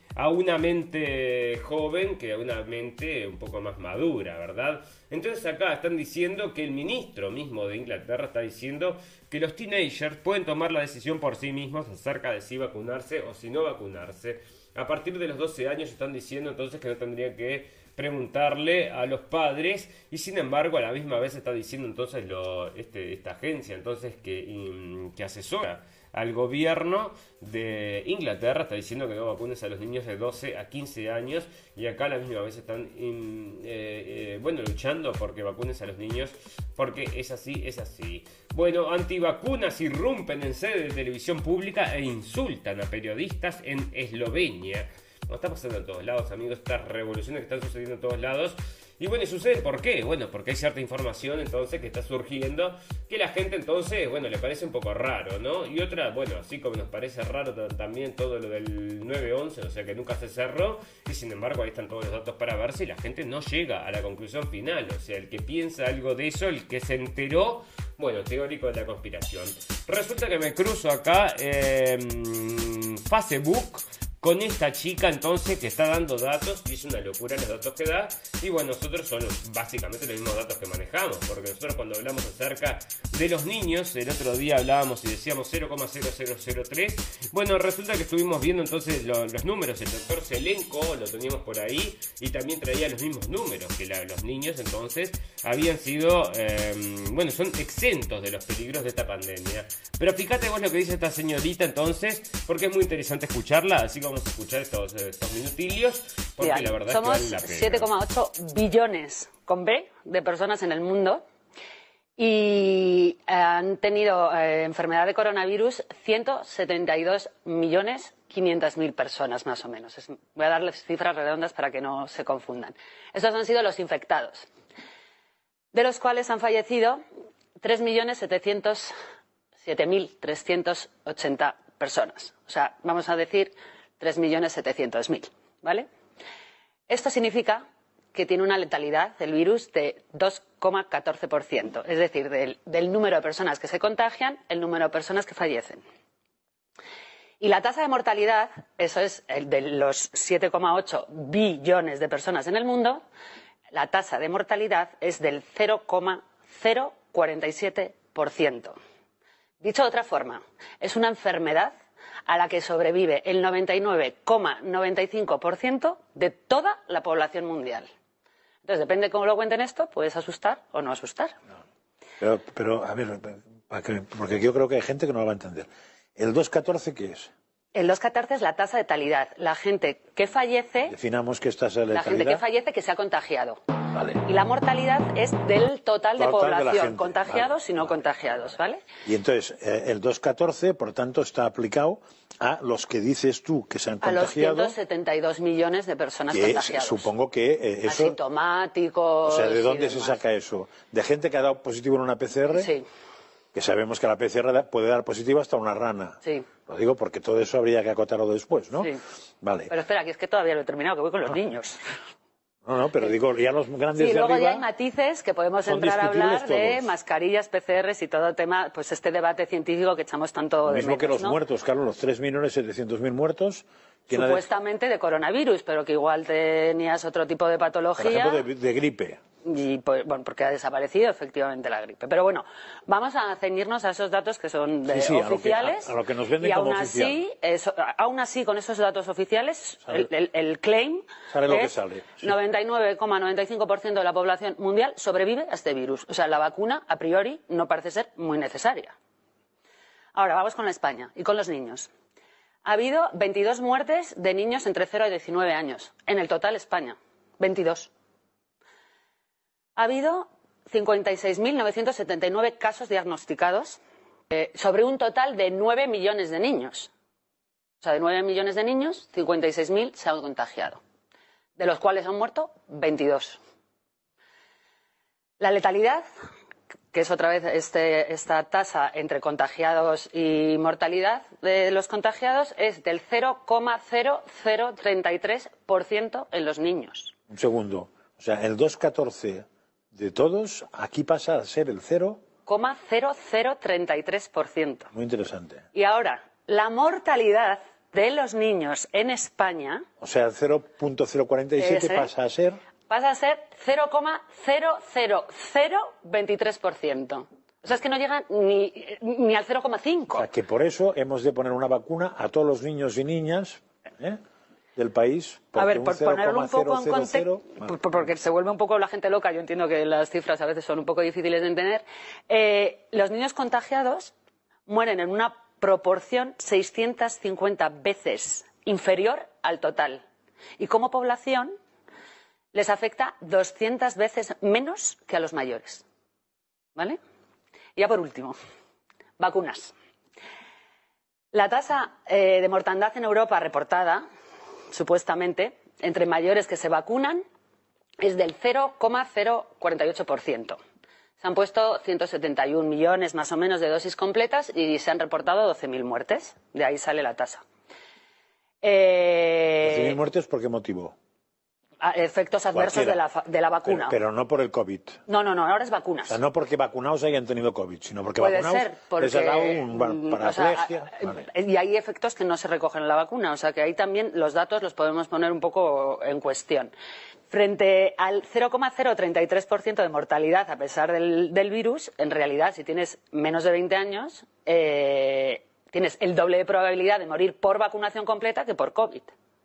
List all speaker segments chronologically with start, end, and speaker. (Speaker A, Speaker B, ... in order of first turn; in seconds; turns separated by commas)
Speaker A: 0.1-107.9, Speaker B: 106.4-111.2, Speaker B: 112.2-124.5, Speaker B: 125.7-127.0, Speaker B: 127.6-128.9, Speaker B: 129.6-135.9, Speaker B: 136.9-145.8, Speaker B: 147.4-153.0, Speaker B: 153.7-158.8, Speaker B: 159.6-161.7, Speaker B: 162.3-167.9, Speaker B: 168.6-171.4, Speaker C: 172.2-177.3, Speaker B: 177.7-180.9, Speaker C: 180.9-182.4, Speaker B: 181.9-183.6, Speaker C: 183.9-184.2, Speaker B: 184.2-188.8, Speaker C: 186.2-187.9, Speaker C: 189.1-194.7, Speaker B: 194.0-197.1, Speaker C: 196.3-198.2, Speaker B: 197.8-200.2, Speaker C: 199.2-202.7, Speaker B: 202.5-202.8, Speaker C: 203.5-208.9, Speaker B: 206.2-206.5, Speaker C: 209.4-209.7, Speaker B: 209.7-211.8, Speaker C: 212.6-214.7, Speaker B: 213.9-221.4, Speaker C: 215.6-216.9, Speaker C: 220.7-224.4, Speaker B: 224.1-228.4, Speaker C: 228.0-229.2, Speaker B: 229.4-248.9, Speaker C: 234.9-237.2, Speaker C: 241.3-242.3, Speaker B: 250.1-251.9, Speaker B: 252.6-257.9, Speaker B: 259.8-263.8, Speaker B: 264.3-266.9, Speaker B: 267.8-270.8, Speaker B: 271.6-273.4, Speaker B: 275.4-276.0, Speaker B: 276.9-287.1, Speaker C: 287.3-292.2, Speaker B: 292.5-294.9, Speaker C: 294.9-295.6, Speaker B: 295.7-299.9, Speaker C: 300.0-302.6, Speaker B: 301.6-302.1, Speaker B: 302.9-310.3, Speaker C: 310.1-314.2, Speaker C: 314.8-317.8, Speaker B: 315.6-324.1, Speaker B: 324.7-330.0, Speaker B: 330.6-331.5, Speaker B: 332.5-335.9, Speaker B: 337.8-338.4, Speaker B: 339.2-339.7, Speaker B: 341.3-344.0, Speaker B: 344.7-347.2, Speaker B: 348.0-350.6, Speaker B: 351.2-357.4, Speaker B: 358.6-360.0, Speaker C: 359.6-360.9, Speaker B: 361.8-364.0, Speaker C: 362.5-363.0, Speaker C: 363.6-365.0, Speaker B: 365.1-366.2, Speaker C: 366.1-371.2, Speaker B: 368.2-376.7, Speaker B: 377.3-389.1